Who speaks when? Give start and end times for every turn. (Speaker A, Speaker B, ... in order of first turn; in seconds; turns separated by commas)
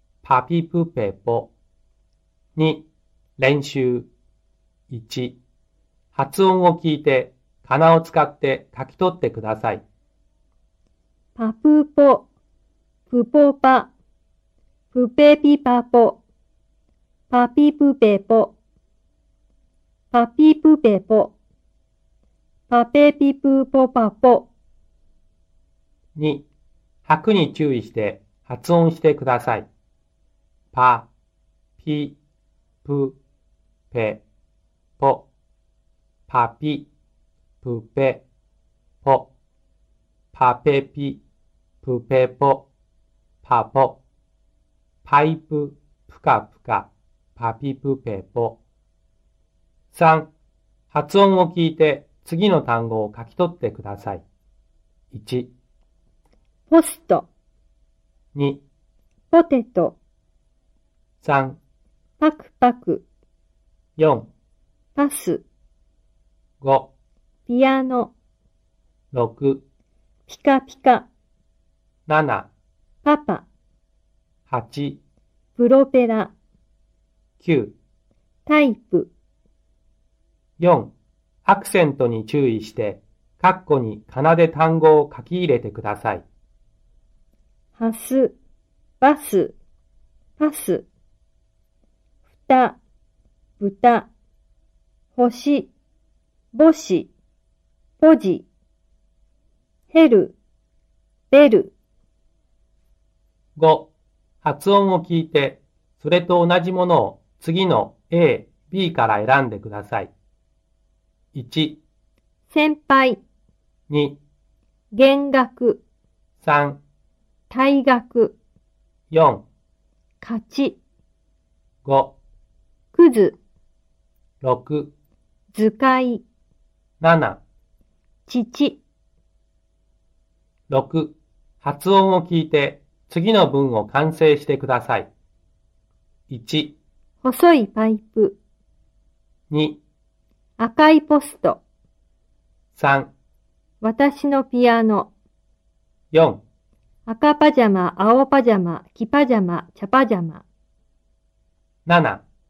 Speaker A: 0.2-1.5, Speaker A: 2.6-2.9, Speaker A: 3.4-4.1, Speaker A: 4.9-5.4, Speaker A: 6.1-9.8, Speaker B: 11.3-12.3, Speaker B: 13.1-13.9, Speaker B: 14.9-16.2, Speaker B: 17.3-18.6, Speaker B: 20.1-21.3, Speaker B: 22.7-24.5, Speaker A: 26.1-26.5, Speaker A: 27.1-29.7, Speaker A: 30.7-31.1, Speaker A: 31.8-32.2, Speaker A: 32.8-33.2, Speaker A: 33.9-34.2, Speaker A: 35.0-35.3, Speaker A: 36.3-36.9, Speaker A: 37.6-38.2, Speaker A: 39.0-39.3, Speaker A: 40.3-41.2, Speaker A: 41.8-42.7, Speaker A: 43.4-44.0, Speaker A: 45.0-48.6, Speaker A: 49.9-50.3, Speaker A: 50.9-54.2, Speaker A: 55.1-55.5, Speaker B: 56.7-57.3, Speaker A: 58.3-58.6, Speaker B: 59.3-60.0, Speaker A: 61.2-61.6, Speaker B: 62.2-63.0, Speaker A: 64.0-64.3, Speaker B: 65.0-65.4, Speaker A: 66.6-66.9, Speaker B: 67.5-68.1, Speaker A: 69.1-69.6, Speaker B: 70.3-71.1, Speaker A: 72.1-72.5, Speaker B: 73.0-73.5, Speaker A: 74.5-75.0, Speaker B: 75.6-76.3, Speaker A: 77.4-77.8, Speaker B: 78.5-79.1, Speaker A: 80.6-80.9, Speaker A: 81.5-86.2, Speaker B: 87.8-88.4, Speaker B: 89.0-89.6, Speaker B: 90.4-90.9, Speaker B: 92.4-92.8, Speaker B: 93.6-94.1, Speaker B: 95.2-95.7, Speaker B: 96.5-97.1, Speaker B: 98.0-98.5, Speaker B: 99.9-100.4, Speaker B: 101.3-101.7, Speaker A: 103.6-110.1, Speaker A: 111.3-111.8, Speaker B: 112.5-113.2, Speaker A: 113.9-114.2, Speaker B: 114.9-115.8, Speaker A: 116.4-116.8, Speaker B: 117.5-118.4, Speaker A: 119.1-119.5, Speaker B: 120.2-120.8, Speaker A: 121.8-122.2, Speaker B: 122.9-123.4, Speaker A: 124.4-124.9, Speaker B: 125.5-126.2, Speaker A: 127.0-127.4, Speaker B: 128.3-128.8, Speaker A: 130.7-135.1, Speaker A: 136.3-136.8, Speaker B: 137.2-138.4, Speaker A: 139.5-139.8, Speaker B: 140.6-141.6, Speaker A: 142.7-143.1, Speaker B: 143.8-145.1, Speaker A: 146.1-146.4, Speaker B: 147.1-150.4, Speaker A: 151.9-152.2